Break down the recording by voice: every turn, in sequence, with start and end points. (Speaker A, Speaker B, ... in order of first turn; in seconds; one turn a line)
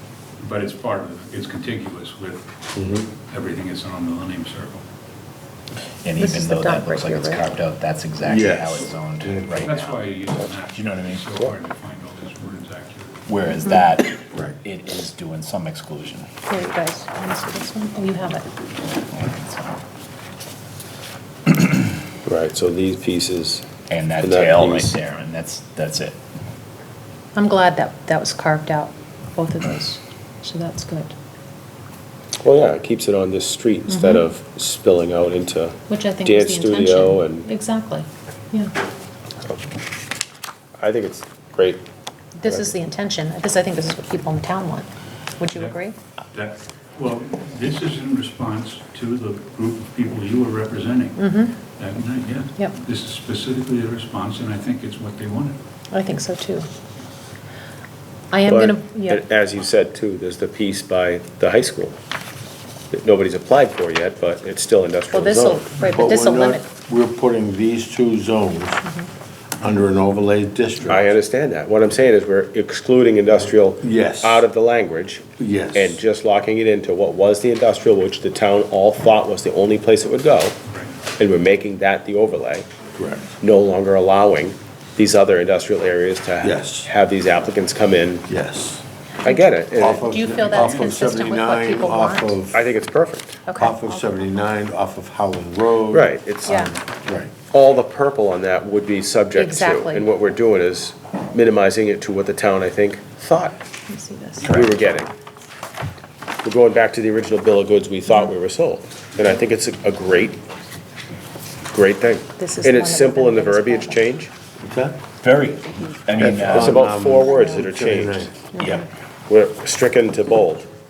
Speaker A: 0.4-2.5
Speaker B: 2.8-3.1
Speaker A: 3.3-4.8
Speaker C: 6.0-10.0
Speaker D: 6.2-7.5
Speaker B: 8.2-9.7
Speaker A: 9.6-13.2
Speaker C: 10.7-11.4
Speaker C: 13.3-16.3
Speaker D: 16.5-18.5
Speaker C: 19.0-19.8
Speaker E: 22.3-23.7
Speaker C: 23.9-26.2
Speaker E: 24.2-24.9
Speaker D: 27.4-31.1
Speaker E: 32.4-37.5
Speaker D: 33.9-34.3
Speaker D: 35.9-38.7
Speaker E: 40.8-41.9
Speaker D: 42.4-46.0
Speaker A: 45.5-45.8
Speaker A: 46.3-51.2
Speaker D: 51.2-51.6
Speaker A: 51.8-55.6
Speaker D: 55.9-56.7
Speaker D: 58.3-59.2
Speaker E: 58.5-62.0
Speaker E: 62.9-65.7
Speaker D: 65.1-66.7
Speaker B: 65.8-68.8
Speaker B: 69.6-71.1
Speaker E: 70.9-80.6
Speaker B: 73.8-74.5
Speaker B: 75.4-76.0
Speaker A: 80.6-81.0
Speaker E: 81.2-82.7
Speaker B: 83.0-83.3
Speaker E: 83.4-88.3
Speaker B: 86.4-86.9
Speaker B: 88.3-88.8
Speaker E: 89.2-90.1
Speaker D: 89.2-92.4
Speaker B: 89.8-92.6
Speaker A: 90.5-91.0
Speaker E: 92.5-93.4
Speaker D: 93.5-93.8
Speaker B: 93.6-97.3
Speaker E: 95.9-96.7
Speaker D: 96.4-96.7
Speaker E: 97.5-103.6
Speaker D: 99.3-100.1
Speaker D: 103.9-104.8
Speaker A: 104.5-104.7
Speaker E: 104.5-105.1
Speaker E: 106.4-110.4
Speaker D: 108.1-108.3
Speaker E: 111.7-114.3
Speaker D: 112.4-114.1
Speaker B: 114.6-115.0
Speaker C: 115.2-116.8
Speaker B: 116.2-118.8
Speaker E: 116.5-118.3
Speaker D: 116.6-117.7
Speaker D: 118.5-118.9
Speaker E: 119.3-120.7